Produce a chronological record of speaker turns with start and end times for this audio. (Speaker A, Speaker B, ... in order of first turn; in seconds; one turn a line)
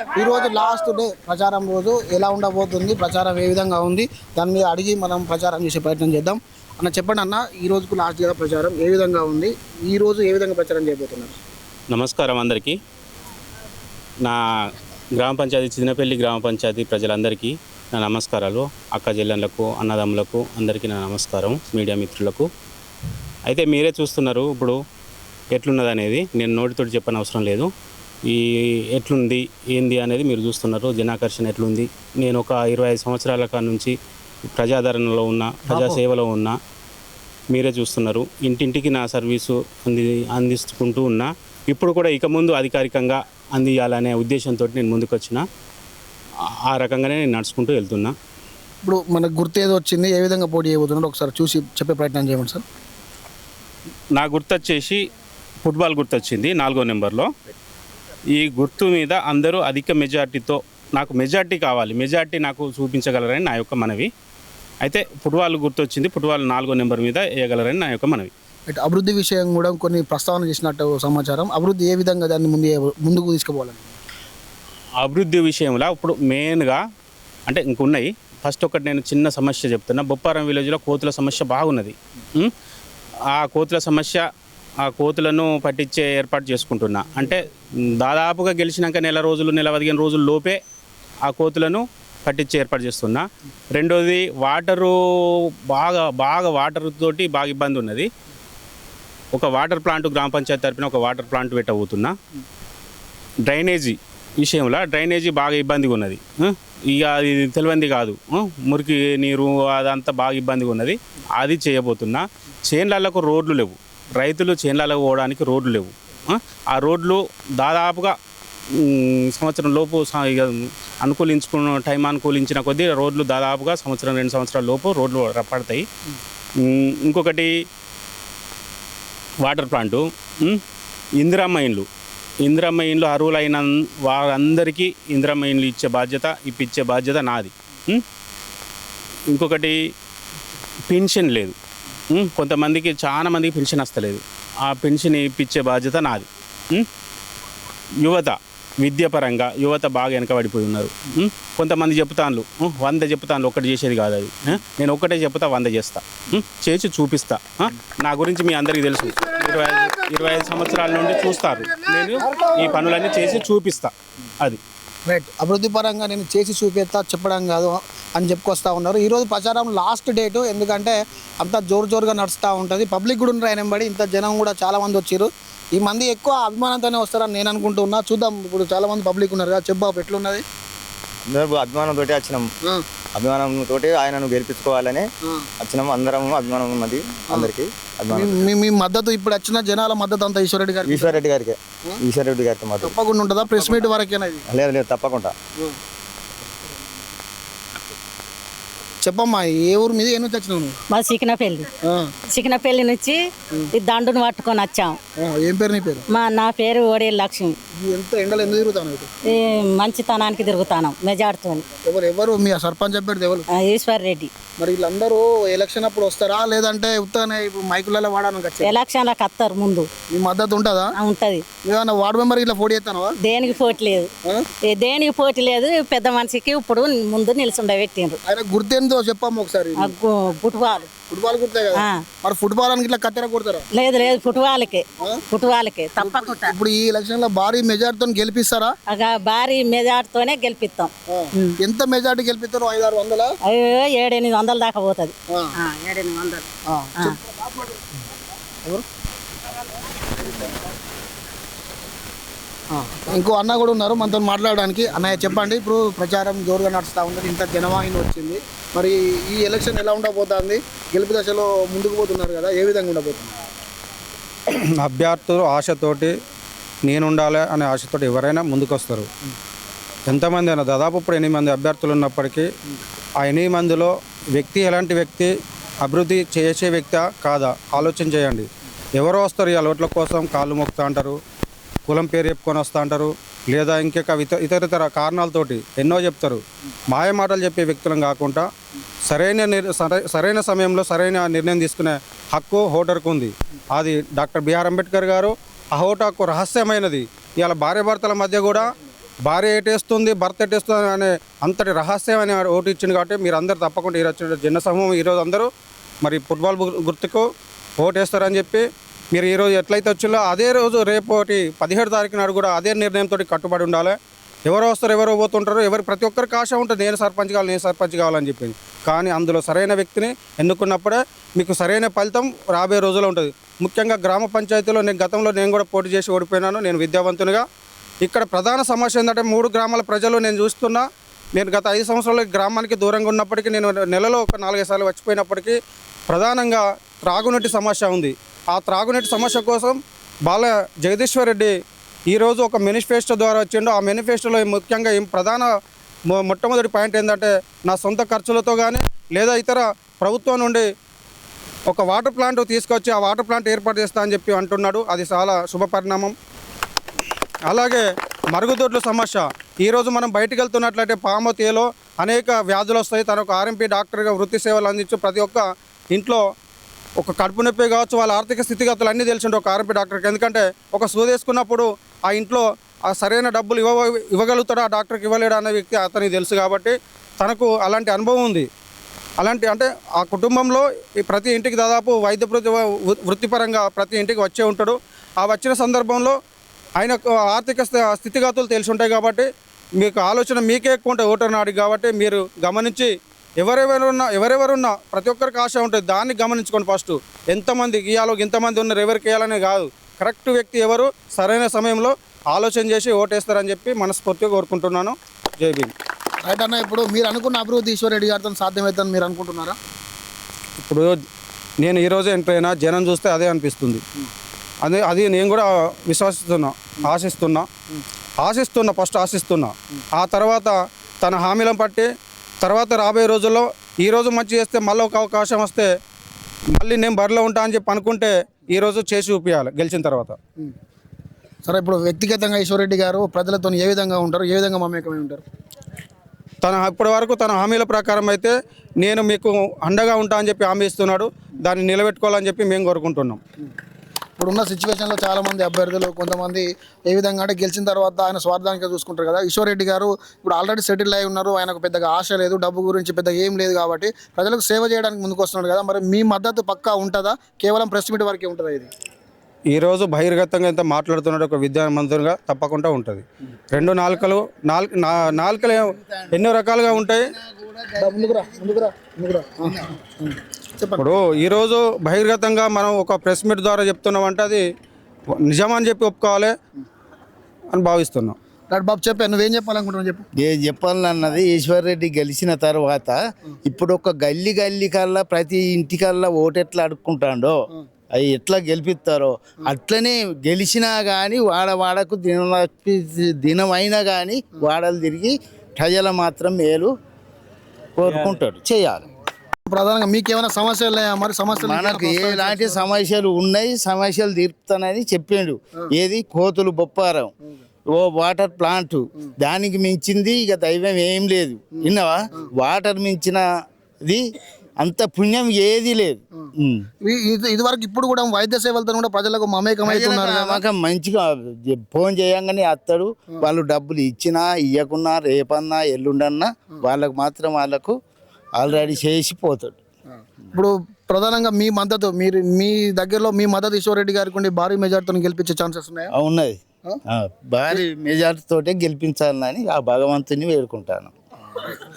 Speaker A: 0.1-11.3
Speaker B: 11.9-12.8
Speaker B: 15.2-22.5
Speaker B: 23.5-24.8
Speaker B: 25.6-27.7
Speaker B: 28.3-33.9
Speaker B: 34.5-36.6
Speaker A: 35.7-36.0
Speaker B: 37.5-45.4
Speaker B: 46.7-48.1
Speaker A: 48.8-52.6
Speaker B: 54.2-55.0
Speaker B: 55.6-57.3
Speaker B: 58.4-64.1
Speaker B: 64.8-68.3
Speaker A: 68.7-73.9
Speaker B: 75.0-76.8
Speaker B: 77.5-82.5
Speaker B: 83.3-84.2
Speaker B: 84.8-87.4
Speaker B: 88.0-90.6
Speaker B: 91.2-94.9
Speaker B: 95.7-98.1
Speaker B: 99.3-102.1
Speaker B: 103.5-118.1
Speaker B: 118.8-125.8
Speaker B: 126.6-127.5
Speaker B: 129.4-130.6
Speaker B: 131.2-131.8
Speaker B: 132.4-138.0
Speaker B: 139.3-139.8
Speaker B: 140.9-141.5
Speaker B: 142.1-146.9
Speaker B: 148.0-164.6
Speaker A: 165.1-180.4
Speaker C: 181.3-182.5
Speaker C: 183.2-185.1
Speaker C: 185.6-188.4
Speaker A: 188.1-191.2
Speaker C: 190.8-192.9
Speaker A: 192.8-194.4
Speaker C: 194.5-195.3
Speaker A: 199.0-200.8
Speaker D: 200.9-201.7
Speaker A: 201.9-202.1
Speaker D: 202.3-203.2
Speaker D: 203.8-205.0
Speaker A: 205.2-206.1
Speaker D: 206.1-207.6
Speaker A: 207.8-209.1
Speaker D: 209.3-211.7
Speaker A: 211.9-213.5
Speaker D: 213.6-214.3
Speaker A: 214.6-218.8
Speaker D: 218.6-219.9
Speaker A: 220.1-220.9
Speaker D: 221.0-221.4
Speaker A: 221.7-223.2
Speaker D: 223.2-224.1
Speaker D: 224.7-228.2
Speaker A: 228.3-229.9
Speaker D: 229.8-230.9
Speaker A: 231.1-233.7
Speaker D: 233.7-236.5
Speaker A: 236.0-238.7
Speaker D: 238.9-241.6
Speaker A: 241.1-243.3
Speaker D: 243.5-246.5
Speaker A: 246.7-247.2
Speaker A: 252.7-263.3
Speaker E: 264.8-266.1
Speaker E: 266.8-269.1
Speaker E: 270.1-272.5
Speaker E: 273.2-275.3
Speaker E: 275.8-281.2
Speaker E: 281.9-288.5
Speaker E: 289.1-298.7
Speaker E: 299.2-305.5
Speaker E: 306.0-307.3
Speaker E: 307.8-327.4
Speaker E: 328.0-335.6
Speaker E: 336.1-341.5
Speaker E: 342.1-345.5
Speaker E: 346.1-350.7
Speaker E: 351.7-356.1
Speaker E: 357.5-366.2
Speaker E: 367.0-378.5
Speaker E: 379.2-386.2
Speaker E: 386.8-389.3
Speaker E: 389.8-405.7
Speaker A: 406.3-409.6
Speaker E: 410.6-410.9
Speaker E: 411.6-413.8
Speaker E: 414.6-417.5
Speaker E: 418.2-421.9
Speaker E: 422.4-425.7
Speaker E: 426.6-430.2
Speaker A: 431.4-435.2
Speaker E: 436.4-443.2
Speaker A: 444.2-458.7
Speaker E: 459.5-467.0
Speaker F: 465.1-468.6
Speaker A: 467.8-471.0
Speaker E: 470.8-474.4
Speaker E: 475.3-476.3
Speaker E: 477.5-478.2
Speaker A: 478.5-480.1
Speaker F: 480.2-487.3
Speaker F: 487.9-496.7
Speaker F: 497.8-498.8
Speaker B: 497.9-498.2
Speaker A: 499.5-502.7
Speaker F: 501.3-507.1
Speaker F: 507.7-513.2
Speaker A: 511.6-512.3
Speaker F: 514.6-516.7
Speaker A: 516.8-520.4
Speaker F: 519.6-527.8
Speaker F: 528.4-529.6
Speaker A: 530.3-535.9
Speaker F: 535.9-540.9